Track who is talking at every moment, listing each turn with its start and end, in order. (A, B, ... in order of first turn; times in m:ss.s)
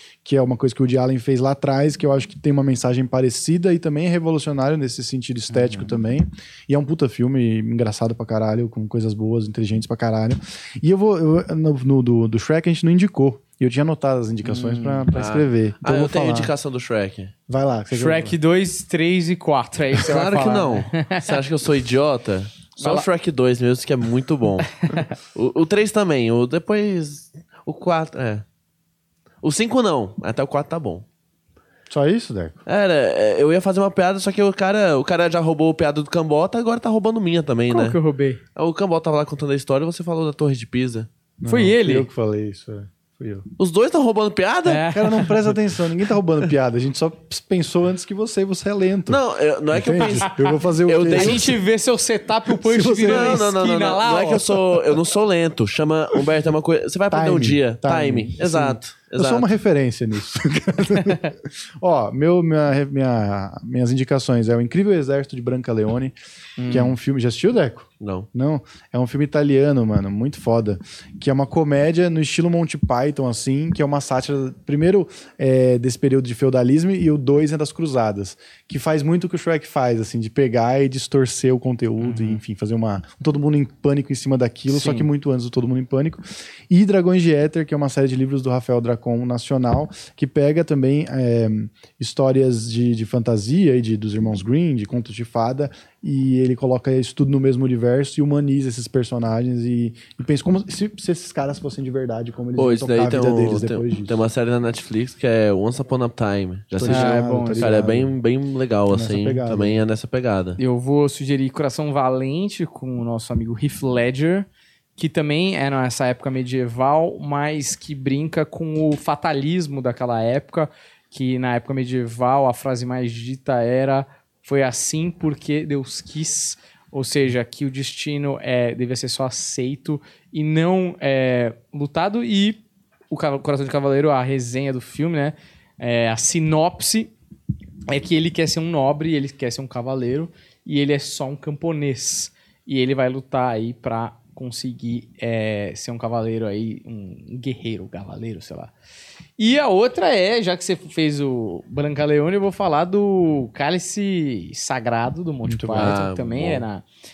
0:00.2-0:16.5 A
0:05.5-0:05.9 B
0:14.4-0:15.1 B
0:15.1-0:17.3 C
0:17.5-0:18.3 A
0:17.9-0:21.4 B
0:20.0-0:24.7 C
0:22.8-0:23.0 B
0:24.8-0:25.1 B
0:25.3-0:28.4 C
0:29.4-0:31.0 C
0:31.9-0:32.6 A
0:32.6-0:38.0 C
0:37.7-0:38.4 B
0:38.5-0:41.1 C
0:41.4-0:43.5 A
0:41.4-0:42.1 B
0:43.6-0:45.2 C
0:44.6-0:45.3 B
0:44.9-0:49.2 A
0:49.1-0:51.6 C
0:49.7-0:51.6 A
0:50.0-0:50.3 B
0:51.1-0:54.6 B
0:52.6-0:53.4 A
0:53.0-0:59.5 C
0:57.1-1:06.1 A
1:01.0-1:01.3 B
1:06.6-1:06.9 B
1:06.7-1:44.2 A
1:08.0-1:08.3 C
1:22.0-1:22.4 B
1:24.7-1:25.1 B
1:42.6-1:50.6 C
1:46.7-1:48.1 A
1:46.9-1:47.8 B
1:48.9-1:49.8 A
1:50.6-2:17.1 B
2:17.9-2:28.7 B
2:29.4-2:36.8 B
2:35.5-2:36.0 A
2:35.7-2:36.6 C